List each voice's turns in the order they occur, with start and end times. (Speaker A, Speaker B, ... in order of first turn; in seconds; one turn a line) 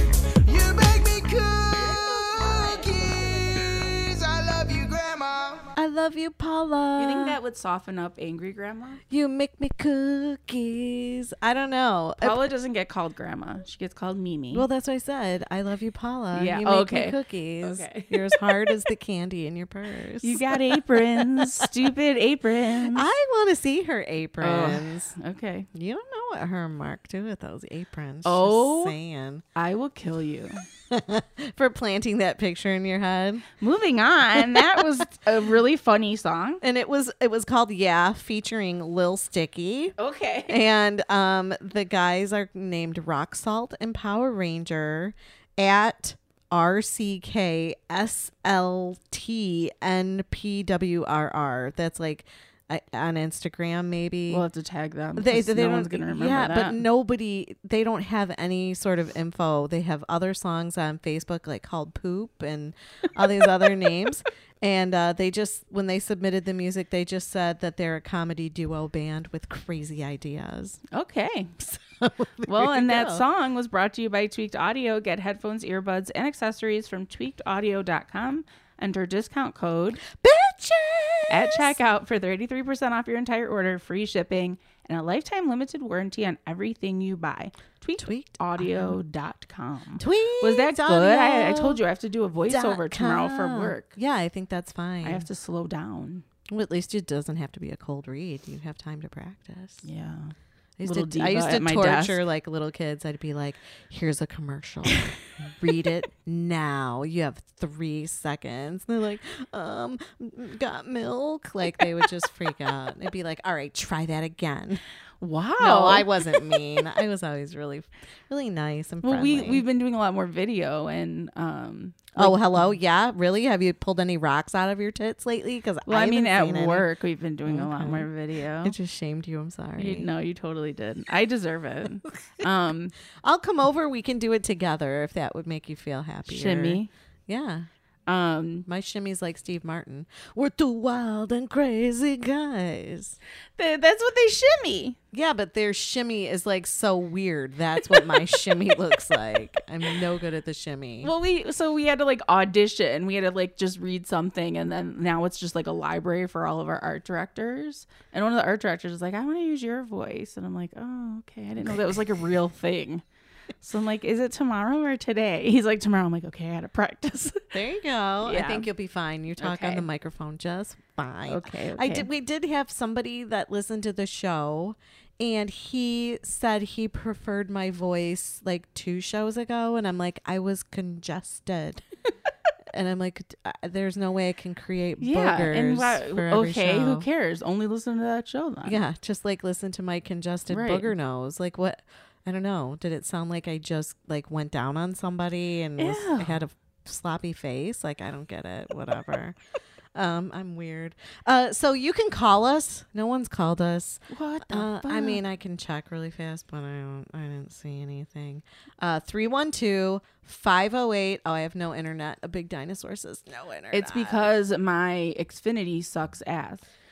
Speaker A: 0.5-5.7
Speaker B: 2.5-2.8
Speaker C: 5.8-7.4
Speaker B: 7.0-9.0
Speaker C: 9.1-12.5
Speaker B: 12.2-14.7
Speaker C: 14.5-21.7
Speaker B: 16.3-18.7
Speaker B: 20.2-23.1
Speaker C: 22.9-25.1
Speaker B: 24.4-25.7
Speaker C: 25.7-29.4
Speaker B: 28.2-29.0
Speaker B: 29.6-30.6
Speaker C: 30.9-33.5
Speaker B: 33.6-36.6
Speaker C: 34.4-34.8
Speaker C: 36.6-40.0
Speaker B: 40.0-40.6
Speaker C: 40.5-54.5
Speaker B: 54.3-56.8
Speaker C: 55.2-70.8
Speaker B: 70.9-71.5
Speaker C: 71.6-73.2
Speaker B: 72.5-80.0
Speaker C: 80.1-81.7
Speaker B: 81.3-93.9
Speaker C: 88.0-89.0
Speaker C: 90.0-91.8
Speaker C: 92.5-95.3
Speaker B: 95.0-96.2
Speaker C: 96.5-99.8
Speaker B: 99.8-102.2
Speaker C: 100.8-114.8
Speaker B: 115.2-116.6
Speaker C: 115.6-119.6
Speaker B: 119.0-122.7
Speaker C: 122.2-126.9
Speaker B: 125.9-128.8
Speaker C: 127.5-128.1
Speaker C: 128.6-130.1
Speaker B: 129.8-132.9
Speaker C: 133.2-137.7
Speaker B: 136.3-136.9
Speaker B: 138.1-138.7
Speaker C: 138.7-143.2
Speaker B: 143.6-145.0
Speaker C: 145.1-151.1
Speaker B: 147.9-148.5
Speaker B: 151.0-163.0
Speaker B: 163.6-167.4
Speaker C: 167.5-181.8
Speaker B: 168.2-168.7
Speaker B: 169.4-169.8
Speaker B: 171.3-172.1
Speaker C: 182.7-187.1
Speaker B: 185.0-188.8
Speaker C: 188.7-199.4
Speaker B: 190.5-190.9
Speaker B: 195.8-196.4
Speaker C: 199.9-214.3
Speaker B: 204.1-205.2
Speaker B: 213.7-216.7